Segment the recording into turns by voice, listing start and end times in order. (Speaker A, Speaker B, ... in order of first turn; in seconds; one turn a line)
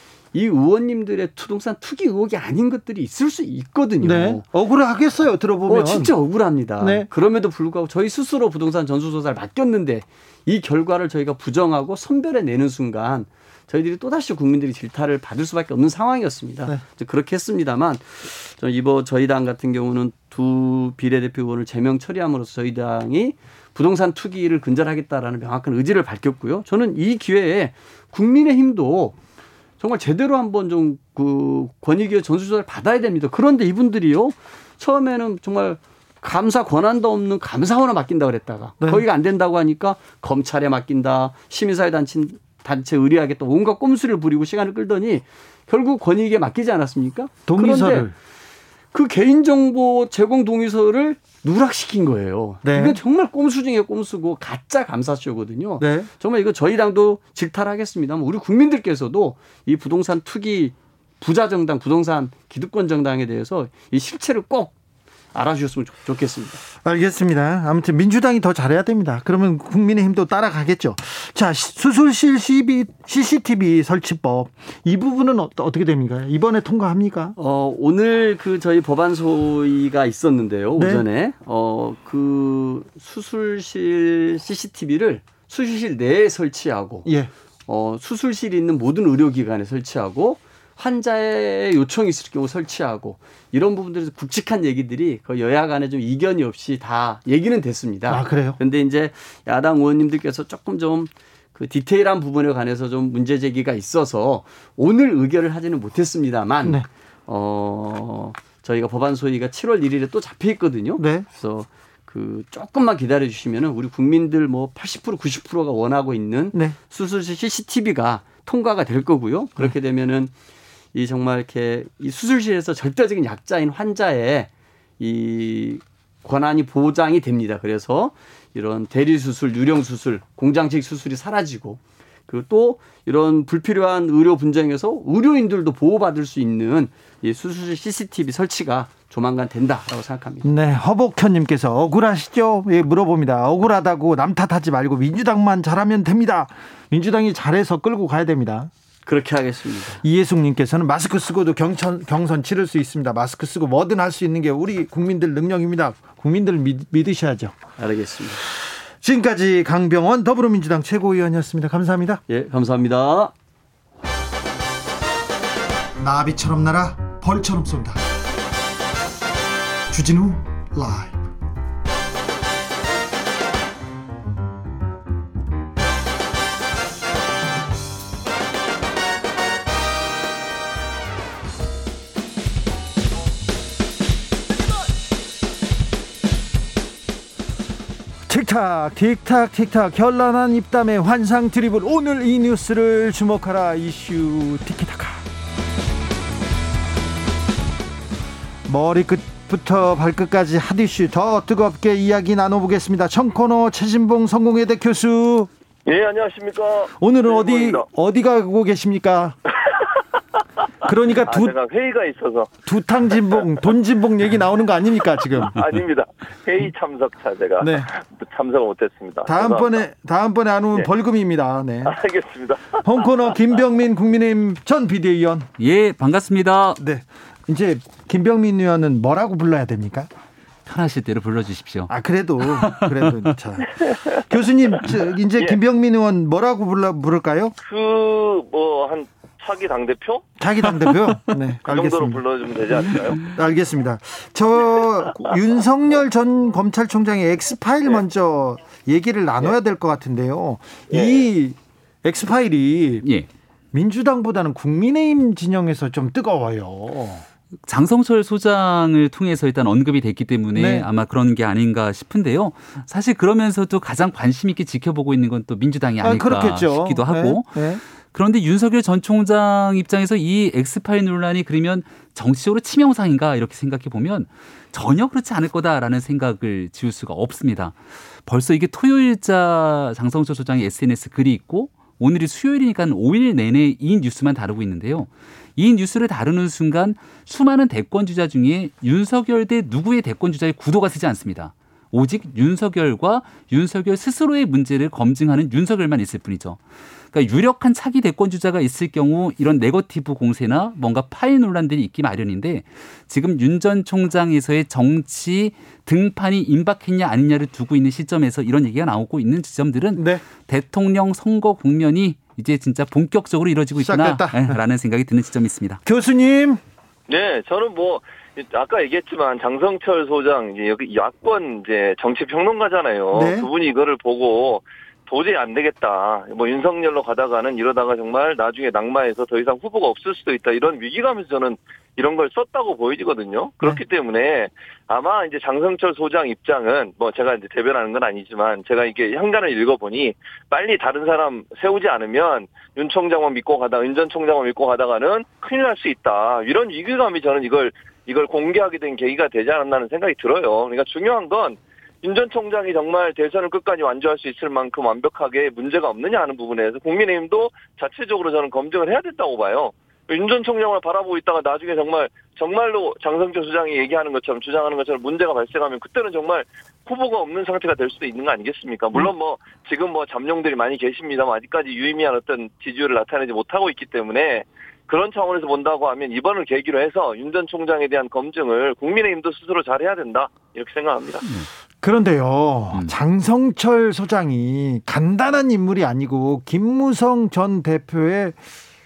Speaker A: 0.3-4.4
Speaker B: 4.0-6.1
Speaker A: 5.7-29.1
Speaker B: 6.8-7.1
Speaker A: 29.8-48.1
Speaker B: 47.5-48.1
Speaker A: 48.9-64.7
Speaker B: 52.6-53.0
Speaker B: 55.8-56.1
Speaker A: 65.3-66.6
Speaker B: 66.8-77.3
Speaker A: 77.4-87.1
Speaker B: 80.8-81.0
Speaker B: 87.0-87.3
Speaker A: 87.7-120.3
Speaker B: 98.1-98.6
Speaker B: 111.0-111.2
Speaker A: 120.9-124.5
Speaker A: 125.0-140.5
Speaker B: 140.4-148.7
Speaker A: 149.1-150.0
Speaker B: 150.0-157.6
Speaker A: 157.8-158.4
Speaker B: 159.0-162.2
Speaker A: 162.3-163.3
Speaker B: 166.0-168.0
Speaker B: 169.9-171.3
Speaker B: 188.3-195.2
Speaker B: 198.7-205.5
Speaker C: 205.8-207.8
Speaker B: 207.0-209.4
Speaker B: 210.8-211.5
Speaker C: 211.3-212.6
Speaker B: 212.6-215.6
Speaker C: 215.5-219.8
Speaker B: 217.6-217.9
Speaker B: 219.2-222.0
Speaker C: 221.8-222.8
Speaker B: 222.8-225.5
Speaker D: 225.6-226.8
Speaker B: 226.8-230.1
Speaker D: 230.7-231.9
Speaker B: 231.9-237.5
Speaker D: 232.4-233.3
Speaker C: 237.6-240.2
Speaker B: 240.4-242.2
Speaker D: 240.8-241.2
Speaker C: 241.6-243.2
Speaker B: 242.9-253.0
Speaker C: 250.9-251.2
Speaker D: 253.0-253.3
Speaker B: 253.7-257.2
Speaker D: 257.6-296.6
Speaker B: 260.5-260.9
Speaker B: 266.0-267.8
Speaker D: 297.1-315.8
Speaker B: 309.9-310.2
Speaker B: 313.8-314.6
Speaker B: 315.8-316.6
Speaker C: 317.1-381.2
Speaker B: 323.1-323.5
Speaker B: 381.8-388.4